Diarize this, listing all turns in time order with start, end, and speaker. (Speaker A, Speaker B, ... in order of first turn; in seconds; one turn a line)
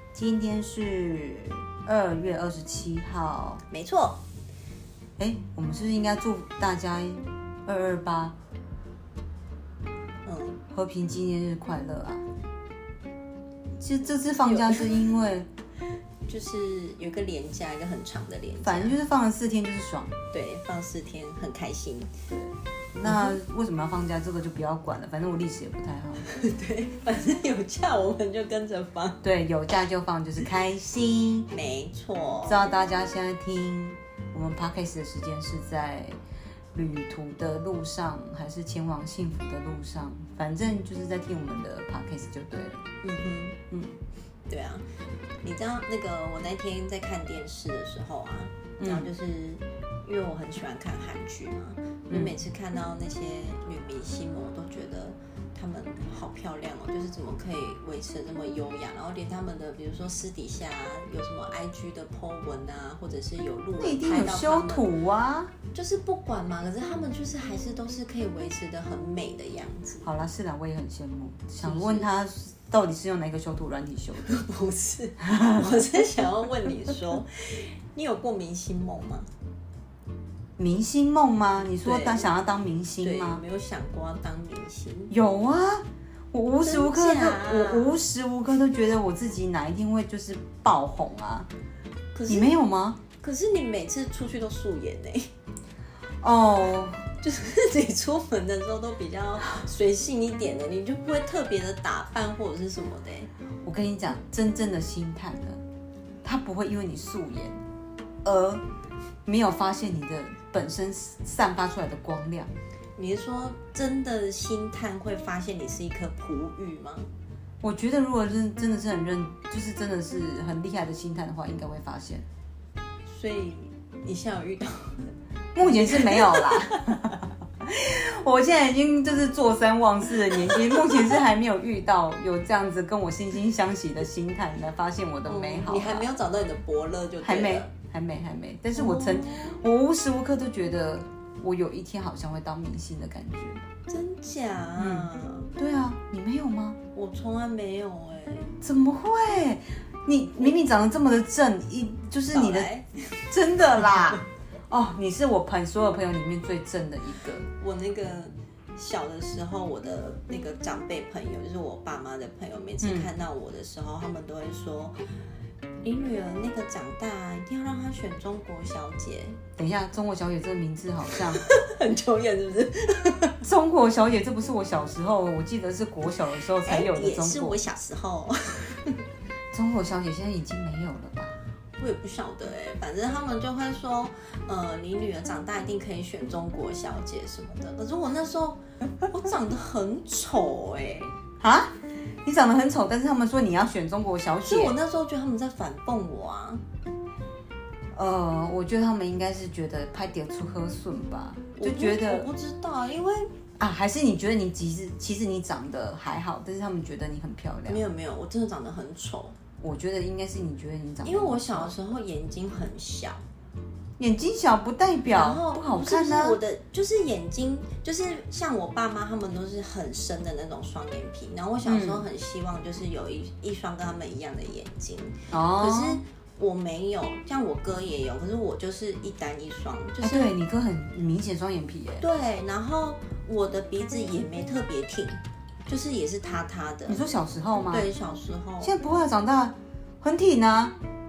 Speaker A: 0.1-3.6
Speaker B: 3.7-4.2
Speaker A: 5.2-8.4
Speaker B: 10.2-10.6
Speaker A: 10.7-12.2
Speaker A: 13.8-15.5
Speaker B: 14.4-14.9
Speaker B: 16.3-18.9
Speaker A: 18.6-20.2
Speaker B: 20.3-22.1
Speaker A: 22.3-26.3
Speaker B: 23.0-23.4
Speaker B: 26.2-29.2
Speaker A: 29.2-31.5
Speaker B: 31.5-32.7
Speaker A: 32.5-36.2
Speaker A: 36.7-42.9
Speaker B: 43.0-43.6
Speaker A: 43.7-44.0
Speaker B: 44.5-44.9
Speaker B: 45.4-64.9
Speaker A: 48.8-49.1
Speaker A: 52.1-52.4
Speaker A: 63.8-65.5
Speaker B: 65.7-70.1
Speaker A: 70.0-74.4
Speaker B: 71.6-72.1
Speaker B: 74.2-79.3
Speaker A: 75.2-75.9
Speaker A: 80.6-83.4
Speaker B: 81.8-82.3
Speaker B: 83.0-85.1
Speaker A: 85.1-91.5
Speaker B: 86.6-88.0
Speaker B: 92.2-92.5
Speaker A: 92.3-93.0
Speaker B: 93.2-95.3
Speaker A: 96.2-97.1
Speaker B: 97.2-103.3
Speaker A: 103.6-105.6
Speaker A: 106.2-107.6
Speaker A: 108.2-108.6
Speaker A: 109.3-112.5
Speaker B: 113.0-117.1
Speaker A: 117.6-122.2
Speaker B: 123.1-127.1
Speaker A: 125.5-136.1
Speaker B: 130.3-131.2
Speaker B: 135.3-137.7
Speaker A: 137.2-143.6
Speaker B: 138.7-139.6
Speaker B: 143.9-145.5
Speaker A: 144.8-146.8
Speaker B: 146.9-148.6
Speaker A: 148.6-152.7
Speaker B: 152.3-153.2
Speaker A: 153.3-157.5
Speaker B: 157.6-165.0
Speaker A: 162.8-163.1
Speaker B: 165.8-169.4
Speaker A: 169.6-171.4
Speaker B: 171.1-173.4
Speaker A: 173.4-177.6
Speaker B: 176.6-179.0
Speaker A: 179.5-181.4
Speaker B: 181.8-191.2
Speaker A: 191.4-194.8
Speaker B: 194.5-196.6
Speaker A: 197.9-202.3
Speaker B: 201.6-203.3
Speaker A: 203.6-207.8
Speaker B: 207.7-209.4
Speaker A: 209.6-211.7
Speaker B: 211.0-213.2
Speaker A: 214.0-216.4
Speaker B: 215.1-230.3
Speaker A: 221.7-222.0
Speaker A: 225.3-226.0
Speaker A: 230.0-232.0
Speaker B: 232.0-237.0
Speaker A: 236.9-237.9
Speaker B: 237.7-238.8
Speaker A: 238.6-240.8